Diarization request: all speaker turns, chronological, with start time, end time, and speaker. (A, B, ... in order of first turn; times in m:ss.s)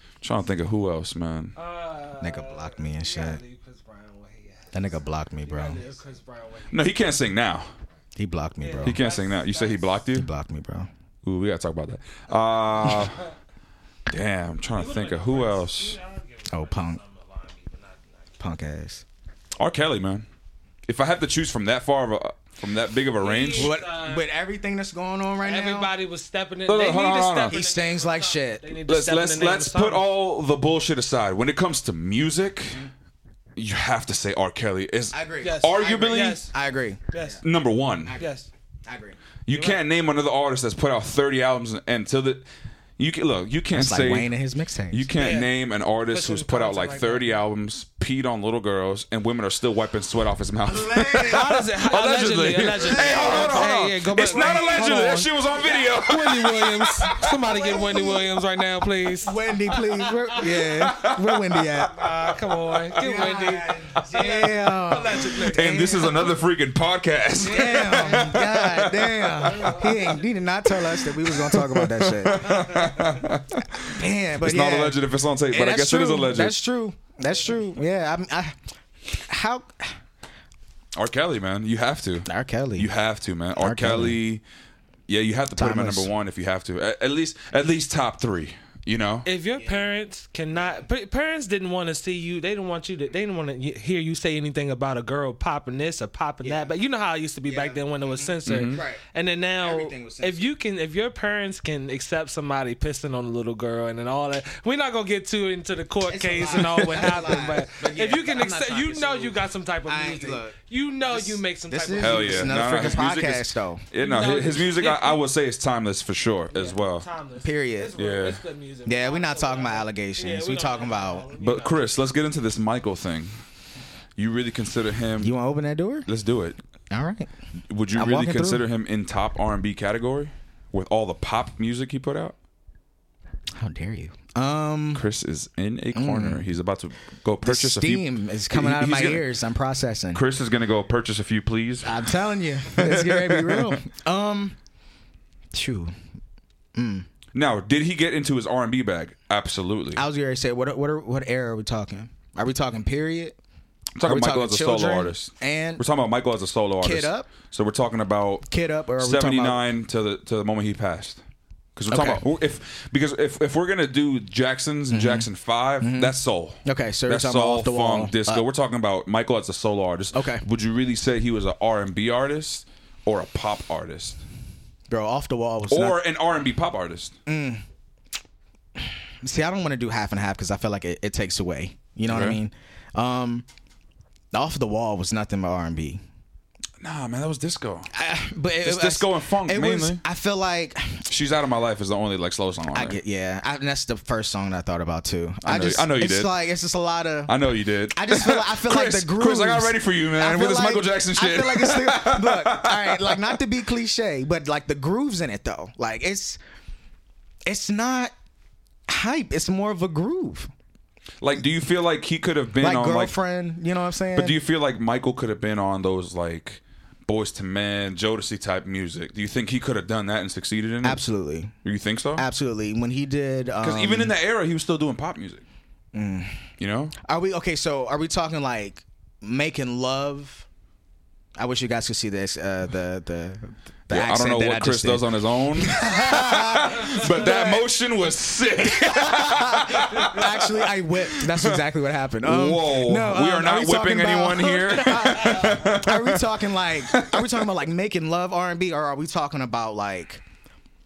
0:00.2-0:01.5 A
0:01.6-0:07.0 B
0:02.2-0:03.4 C
0:04.7-0:05.8 C
0:06.7-0:07.7 A
0:08.2-0:09.0 C
0:08.6-0:10.0 B
0:08.8-0:10.3 A
0:10.1-0:10.9 C
0:11.2-0:13.2 A
0:12.9-0:13.3 B
0:14.1-0:16.0 A
0:14.7-0:18.4 B
0:16.5-0:17.0 C
0:18.4-0:19.0 C
0:19.6-0:20.2 A
0:20.9-0:23.7 A
0:23.2-0:24.2 B
0:23.5-0:25.9 C
0:25.4-0:30.0 B
0:26.7-0:27.6 A
0:27.5-0:28.6 C
0:28.8-0:32.9 A
0:33.6-0:36.4 A
0:35.1-0:37.4 C
0:35.4-0:36.5 B
0:37.1-0:37.4 B
0:37.4-0:38.2 A
0:38.0-0:39.2 C
0:38.2-0:38.5 B
0:39.4-0:42.4 A
0:39.5-0:39.8 B
0:43.0-0:44.3 A
0:43.7-0:45.1 C
0:44.9-0:57.4 A
0:45.2-0:45.5 B
0:46.1-0:47.3 B
0:50.6-0:51.6 C
0:51.2-1:00.4 B
0:52.8-0:55.0 C
0:57.4-0:58.3 C
0:59.2-1:02.0 C
1:00.4-1:01.8 A
1:01.9-1:06.3 B
1:03.0-1:06.4 C
1:05.4-1:10.0 A
1:07.4-1:12.7 C
1:07.4-1:08.4 B
1:09.4-1:10.2 B
1:10.6-1:16.6 A
1:12.4-1:13.2 B
1:13.8-1:18.6 C
1:19.1-1:20.0 C
1:20.9-1:24.4 A
1:22.2-1:22.9 C
1:23.6-1:24.2 C
1:25.1-1:29.3 A
1:25.6-1:26.1 C
1:29.2-1:52.9 B
1:29.6-1:29.8 C
1:36.4-1:36.7 C
1:37.4-1:39.0 C
1:38.4-1:38.8 A
1:39.6-1:40.5 C
1:46.0-1:53.8 C
1:52.0-1:57.0 A
1:54.0-1:55.2 B
1:56.5-2:01.9 B
1:57.4-1:57.9 C
1:58.0-1:58.4 A
1:58.8-2:01.3 C
2:01.4-2:03.4 A
2:04.2-2:05.3 A
2:05.2-2:06.1 C
2:06.0-2:06.6 A
2:06.9-2:07.3 C
2:07.7-2:12.4 A
2:07.9-2:08.6 C
2:13.6-2:15.0 C
2:14.9-2:19.2 A
2:15.9-2:16.4 C
2:17.4-2:20.2 C
2:20.1-2:22.0 A
2:21.8-2:24.6 C
2:22.7-2:23.8 A
2:25.5-2:25.9 C
2:26.7-2:27.1 C
2:27.3-2:30.0 A
2:29.9-2:33.4 C
2:34.0-2:38.4 A
2:34.0-2:35.8 C
2:36.8-2:37.3 C
2:38.5-2:39.6 C
2:39.0-2:41.2 A
2:41.8-2:54.2 A
2:41.9-2:42.2 C
2:44.9-2:45.3 C
2:45.8-2:48.4 C
2:50.1-2:50.4 C
2:54.9-2:56.0 C
2:55.7-2:57.1 A
2:57.2-2:57.6 C
2:58.8-3:03.4 C
3:02.1-3:02.4 A
3:04.3-3:06.0 C
3:06.8-3:07.9 A
3:07.9-3:11.0 C
3:08.6-3:10.0 A
3:11.1-3:13.0 A
3:12.7-3:17.4 C
3:15.4-3:16.3 A
3:17.3-3:23.2 A
3:17.9-3:26.4 C
3:27.4-3:28.1 C
3:28.9-3:30.5 C
3:31.2-3:33.1 A
3:32.6-3:34.4 C
3:34.1-3:41.0 A
3:40.8-3:41.5 C
3:41.6-3:42.2 A
3:42.2-3:44.1 C
3:43.6-3:45.4 A
3:45.9-3:46.5 C
3:46.6-3:46.9 A
3:47.0-3:50.4 C
3:51.4-3:57.7 C
3:53.9-4:01.6 A
3:58.8-4:10.2 C
4:02.2-4:07.4 A